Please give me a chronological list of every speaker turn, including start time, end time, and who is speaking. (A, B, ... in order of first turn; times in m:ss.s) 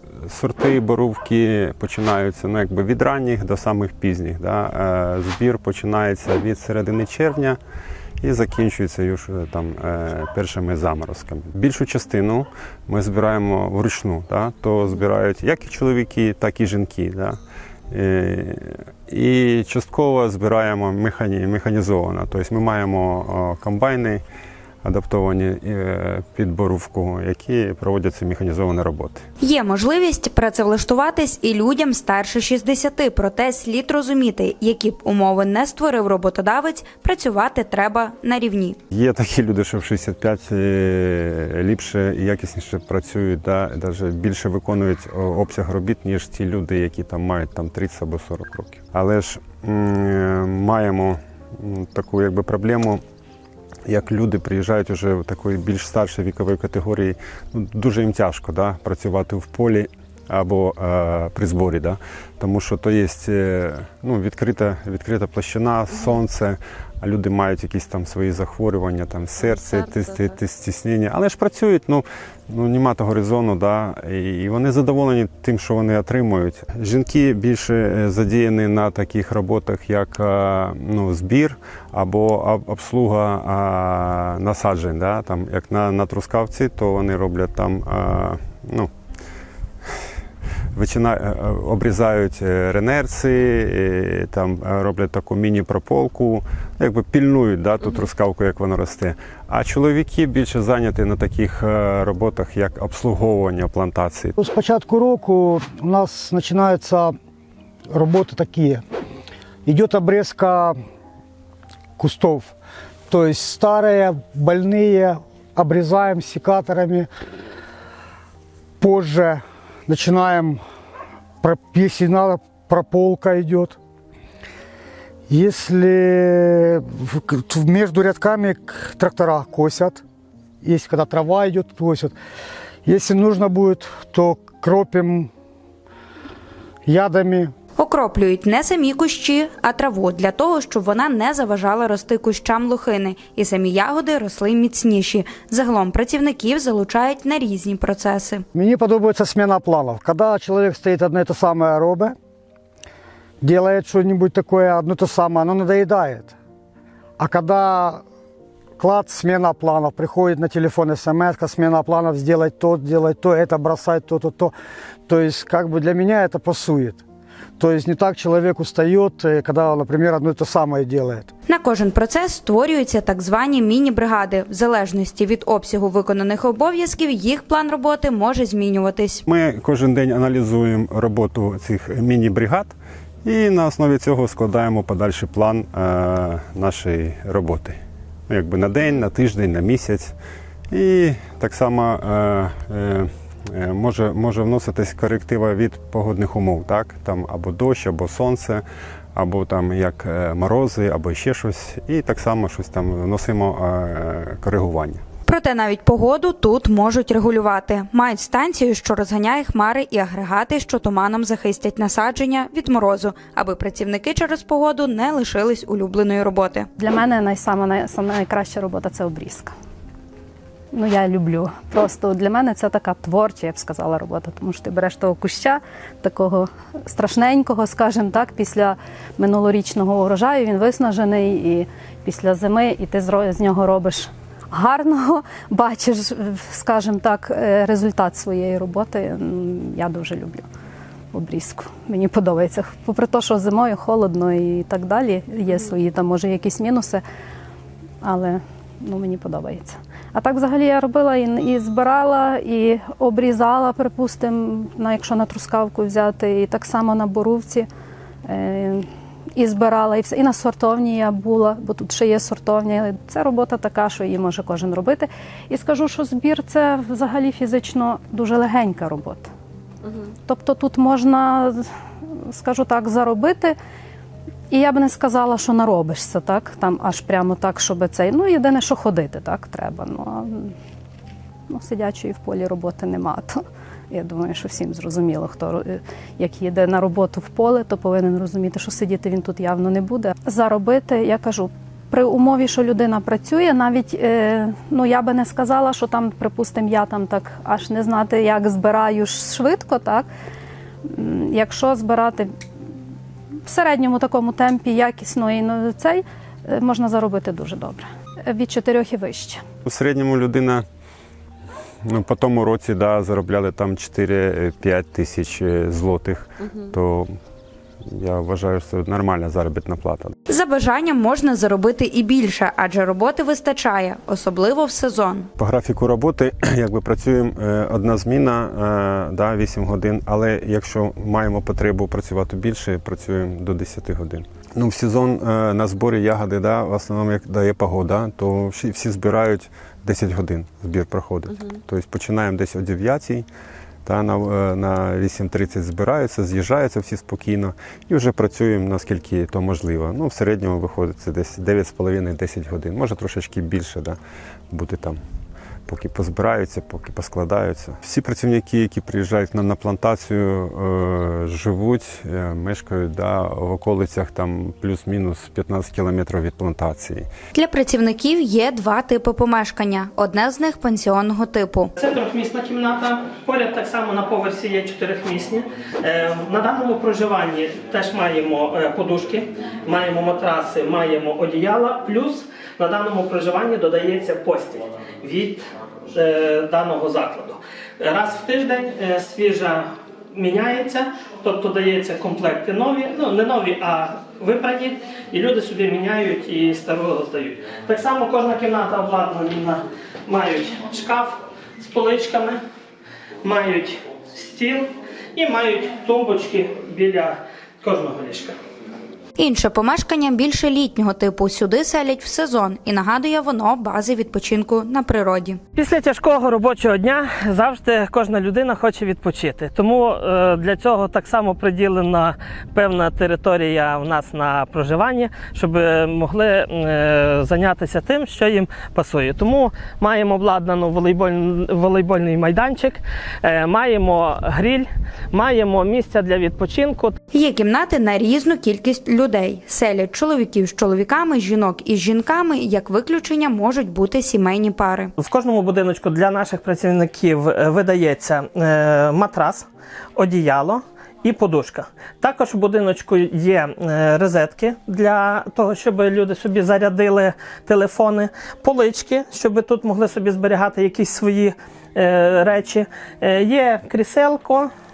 0:00.2-0:07.6 A
0:08.2-0:17.4 A
0:17.9-0:24.2 A
0:24.8-0:29.2 A
0:29.4-0:38.8 B
0:38.9-0:53.0 A
0:53.8-1:28.9 A
1:30.7-1:44.4 A
1:44.4-1:47.1 C
1:47.9-1:48.8 C
1:49.6-1:50.8 C
1:52.0-1:52.5 C
1:53.1-1:57.1 C
1:58.8-2:00.6 C
2:01.4-2:03.8 C
2:05.3-2:10.0 C
2:10.6-2:12.1 C
2:12.8-2:15.3 C
2:16.8-2:17.5 C
2:17.8-2:28.4 B
2:28.5-2:32.1 C
2:33.4-2:36.3 C
2:37.2-2:38.0 C
2:38.8-2:44.5 C
2:45.1-2:47.0 C
2:47.6-2:51.3 C
2:51.5-2:59.2 B
2:59.3-3:02.7 A
3:03.2-3:07.8 A
3:08.3-3:10.1 A
3:10.7-3:18.6 A
3:19.1-3:25.0 A
3:25.2-3:36.7 B
3:36.8-3:39.5 D
3:40.7-4:00.4 D
4:01.1-4:07.0 D
4:08.0-4:17.7 D
4:18.2-4:18.8 D
4:19.4-4:29.3 D
4:30.2-4:33.5 D
4:34.5-4:40.5 D
4:41.5-5:00.1 D
5:00.8-5:02.3 D
5:03.4-5:09.4 D
5:09.6-5:10.6 A
5:11.8-5:17.1 A
5:17.9-5:20.1 A
5:20.3-5:25.3 B
5:25.4-5:43.2 A
5:43.8-5:54.0 A
5:54.5-5:55.0 A
5:55.7-6:07.1 A
6:07.3-6:11.7 B
6:11.8-6:42.4 E
6:43.2-6:48.4 E
6:49.2-6:55.4 B
6:55.5-7:17.0 E
7:17.1-7:24.9 B
7:25.0-7:44.5 E